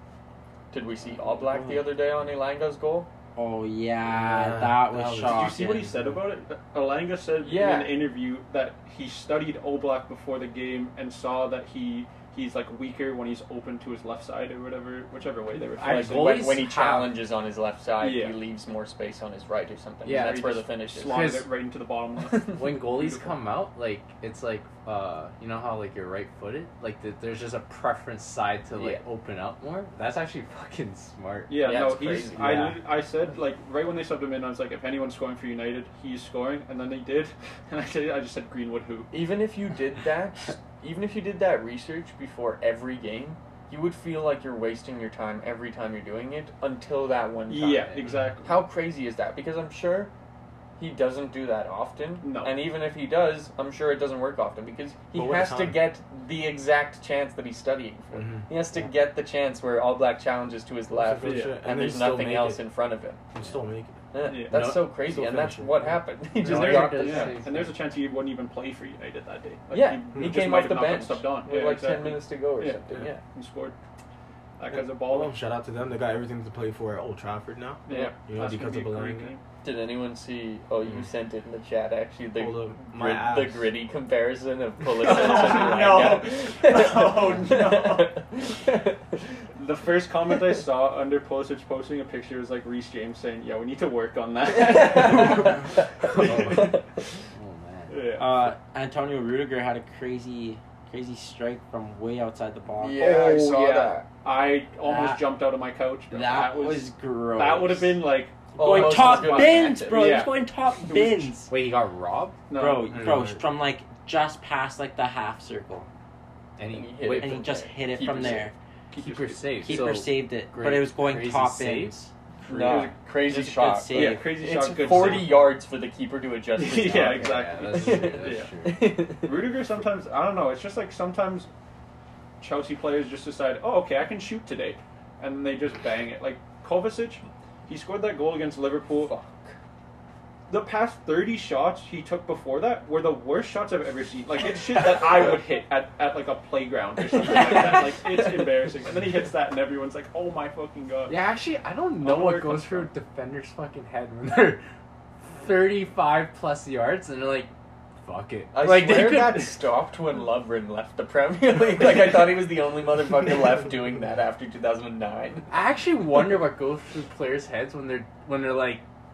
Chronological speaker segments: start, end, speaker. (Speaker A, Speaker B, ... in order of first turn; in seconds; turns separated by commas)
Speaker A: 0.7-3.1, Speaker B: 1.4-1.9, Speaker B: 3.4-5.9, Speaker C: 4.0-6.2, Speaker D: 5.2-16.4, Speaker A: 7.4-8.0, Speaker E: 15.7-17.2, Speaker A: 15.8-21.2, Speaker D: 18.0-18.4, Speaker E: 20.0-21.5, Speaker D: 20.1-23.4, Speaker E: 22.5-32.8, Speaker A: 28.7-29.0, Speaker D: 31.5-39.1, Speaker A: 31.6-32.7, Speaker A: 39.1-50.1, Speaker D: 47.5-48.6, Speaker A: 50.8-63.2, Speaker D: 52.2-52.5, Speaker C: 55.1-55.8, Speaker C: 58.1-58.5, Speaker C: 60.9-62.6, Speaker D: 61.2-61.5, Speaker C: 63.3-63.9, Speaker A: 64.1-67.4, Speaker D: 64.2-64.6, Speaker C: 64.5-65.9, Speaker E: 66.4-67.8, Speaker D: 66.4-73.8, Speaker A: 69.7-73.2, Speaker C: 70.1-70.4, Speaker D: 74.6-75.4, Speaker C: 74.7-79.3, Speaker D: 77.9-79.4, Speaker A: 77.9-78.1, Speaker A: 79.6-89.2, Speaker C: 82.3-83.7, Speaker D: 84.9-88.2, Speaker D: 89.5-96.6, Speaker A: 94.5-97.0, Speaker E: 96.2-96.6, Speaker E: 97.3-98.2, Speaker D: 97.9-98.3, Speaker B: 98.2-103.1, Speaker A: 102.8-104.0, Speaker D: 103.0-110.3, Speaker B: 104.8-105.2, Speaker B: 106.1-108.0, Speaker B: 108.5-111.5, Speaker A: 108.6-110.3, Speaker D: 110.9-111.3, Speaker E: 111.5-112.4, Speaker D: 112.5-113.0, Speaker B: 112.5-115.9, Speaker C: 112.9-113.4, Speaker E: 116.6-117.6, Speaker A: 116.6-118.5, Speaker B: 117.2-118.5, Speaker D: 118.9-120.0, Speaker E: 118.9-122.1, Speaker B: 119.6-122.1, Speaker A: 122.4-129.6, Speaker D: 122.4-125.5, Speaker B: 123.3-124.4, Speaker E: 124.8-125.2, Speaker D: 126.5-128.5, Speaker E: 126.8-129.1, Speaker D: 129.2-131.5, Speaker D: 132.4-139.1, Speaker A: 138.9-139.6, Speaker D: 140.5-151.2, Speaker A: 147.1-148.5, Speaker E: 151.1-154.6, Speaker D: 152.0-152.9, Speaker E: 155.3-157.5, Speaker E: 158.0-159.5, Speaker A: 158.5-165.5, Speaker E: 165.5-168.8